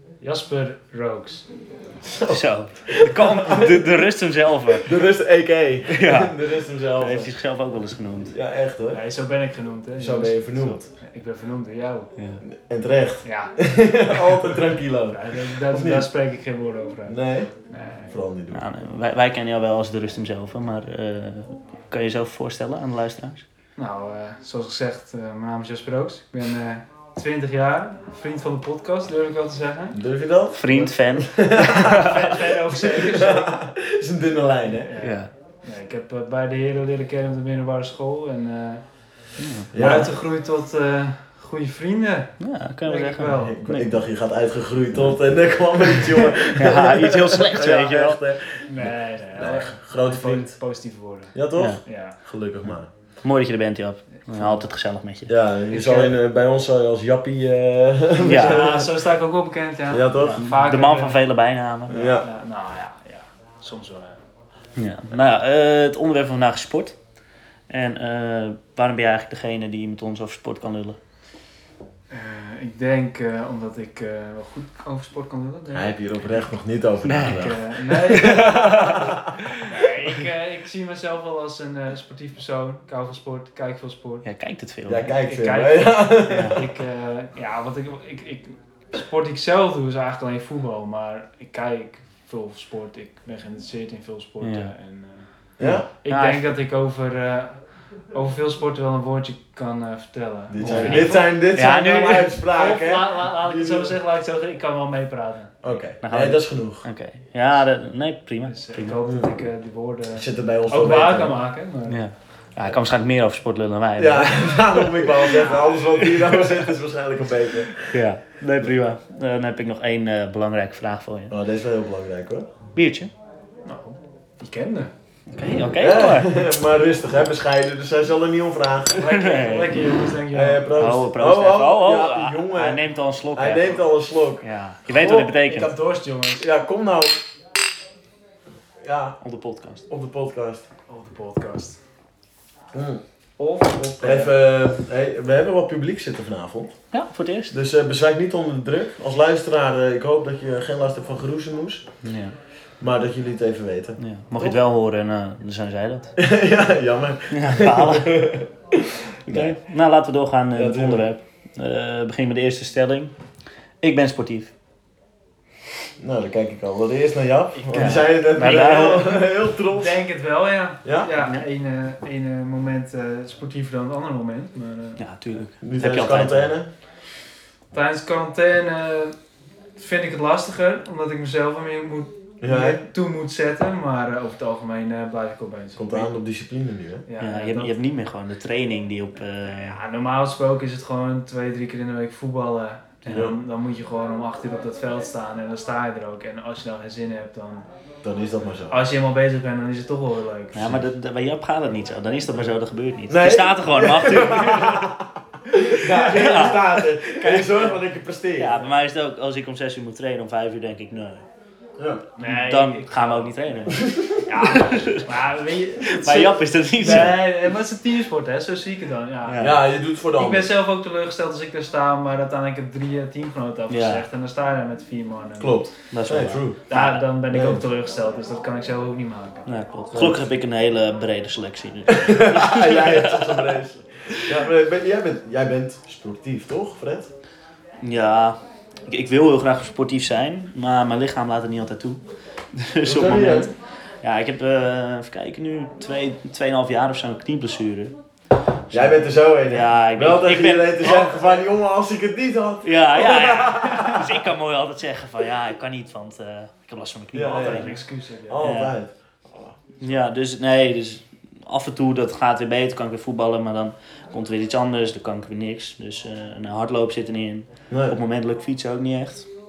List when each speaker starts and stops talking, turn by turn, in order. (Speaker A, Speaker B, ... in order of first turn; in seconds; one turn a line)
Speaker A: 0.2-1.5
Speaker B: 2.0-3.9
Speaker C: 2.3-4.9
Speaker B: 4.7-7.3
Speaker C: 5.9-6.4
Speaker C: 7.0-8.3
Speaker B: 8.3-9.0
Speaker A: 8.9-12.1
Speaker B: 10.0-10.9
Speaker C: 12.2-12.4
Speaker B: 12.4-16.1
Speaker A: 13.2-13.5
Speaker A: 15.1-18.2
Speaker B: 17.1-17.5
Speaker B: 18.1-18.6
Speaker C: 18.5-23.4
Speaker A: 23.8-30.0
Speaker B: 29.9-32.2
Speaker C: 30.5-32.2
Speaker A: 31.6-33.5
Speaker B: 32.7-35.0
Speaker A: 34.7-38.8
Speaker C: 35.0-35.3
Speaker C: 39.4-40.1
Speaker B: 39.7-40.1
Speaker A: 39.8-42.3
Speaker C: 42.4-44.0
Speaker A: 42.9-43.6
Speaker B: 43.3-50.6
Speaker C: 46.5-48.2
Speaker A: 48.7-51.3
Speaker B: 51.3-52.9
Speaker C: 51.6-51.8
Speaker A: 51.9-52.2
Speaker C: 53.2-55.3
Speaker A: 54.2-54.6
Speaker B: 55.3-58.9
Speaker A: 55.7-56.1
Speaker A: 58.2-61.2
Speaker C: 58.2-58.7
Speaker B: 59.9-60.4
Speaker C: 60.3-62.1
Speaker B: 61.9-62.3
Speaker A: 62.1-64.2
Speaker C: 64.8-67.0
Speaker C: 67.7-71.0
Speaker A: 72.1-76.0
Speaker B: 75.7-79.5
Speaker C: 77.0-77.6
Speaker A: 77.3-79.0
Speaker C: 78.5-79.0
Speaker A: 79.6-84.3
Speaker C: 84.2-85.1
Speaker B: 84.9-86.6
Speaker A: 85.2-105.6
Speaker C: 86.3-86.6
Speaker C: 94.4-94.7
Speaker B: 95.6-95.9
Speaker C: 95.6-96.5
Speaker B: 100.5-104.0
Speaker C: 100.6-102.3
Speaker B: 105.6-106.9
Speaker C: 106.0-109.0
Speaker A: 108.5-112.0
Speaker B: 110.2-111.4
Speaker C: 111.9-115.3
Speaker B: 114.0-117.9
Speaker A: 115.3-115.7
Speaker C: 116.0-116.7
Speaker C: 117.8-121.3
Speaker B: 121.3-122.5
Speaker C: 122.8-123.1
Speaker A: 123.7-124.9
Speaker C: 125.3-126.4
Speaker B: 125.8-129.1
Speaker A: 129.0-130.7
Speaker C: 129.1-129.8
Speaker B: 130.3-132.8
Speaker C: 130.8-133.9
Speaker B: 133.3-135.3
Speaker C: 134.4-135.7
Speaker A: 135.4-136.5
Speaker B: 136.4-137.2
Speaker B: 138.8-139.2
Speaker C: 139.2-139.9
Speaker B: 139.9-140.7
Speaker A: 140.9-141.8
Speaker B: 142.7-143.0
Speaker A: 143.4-144.4
Speaker B: 144.0-146.8
Speaker C: 146.9-147.6
Speaker B: 147.5-151.8
Speaker C: 152.0-152.3
Speaker B: 152.8-154.6
Speaker C: 154.0-156.1
Speaker B: 156.2-159.6
Speaker C: 157.3-158.2
Speaker C: 159.3-163.1
Speaker B: 160.6-161.1
Speaker C: 163.8-164.5
Speaker B: 166.0-170.0
Speaker A: 167.5-168.0
Speaker C: 167.7-169.2
Speaker A: 169.7-175.0
Speaker B: 170.8-171.1
Speaker C: 175.0-176.6
Speaker B: 175.6-176.7
Speaker A: 177.7-179.2
Speaker A: 179.8-186.1
Speaker B: 182.4-182.8
Speaker B: 185.8-187.0
Speaker A: 187.1-187.7
Speaker C: 187.2-189.8
Speaker A: 189.4-197.7
Speaker B: 193.1-193.3
Speaker B: 198.0-198.9
Speaker A: 198.7-200.8
Speaker C: 200.5-204.9
Speaker B: 203.1-208.6
Speaker C: 205.9-207.1
Speaker C: 208.4-211.2
Speaker B: 211.8-212.1
Speaker A: 212.2-213.6
Speaker C: 212.2-215.1
Speaker B: 213.7-214.3
Speaker A: 214.3-219.4
Speaker C: 215.8-217.2
Speaker C: 219.2-219.6
Speaker B: 219.4-220.5
Speaker A: 220.2-225.7
Speaker C: 223.7-224.1
Speaker B: 225.4-226.6
Speaker C: 225.9-227.1
Speaker A: 226.7-229.6
Speaker B: 227.3-227.6
Speaker C: 229.5-233.6
Speaker B: 229.9-230.3
Speaker B: 231.9-237.1
Speaker C: 234.1-234.4
Speaker C: 237.8-242.0
Speaker C: 242.5-247.9
Speaker B: 242.8-243.5
Speaker C: 248.7-251.2
Speaker B: 248.7-254.2
Speaker C: 252.6-257.8
Speaker B: 257.1-257.7
Speaker A: 257.3-258.4
Speaker B: 258.3-259.6
Speaker C: 258.4-258.8
Speaker C: 259.8-269.3
Speaker B: 267.7-268.0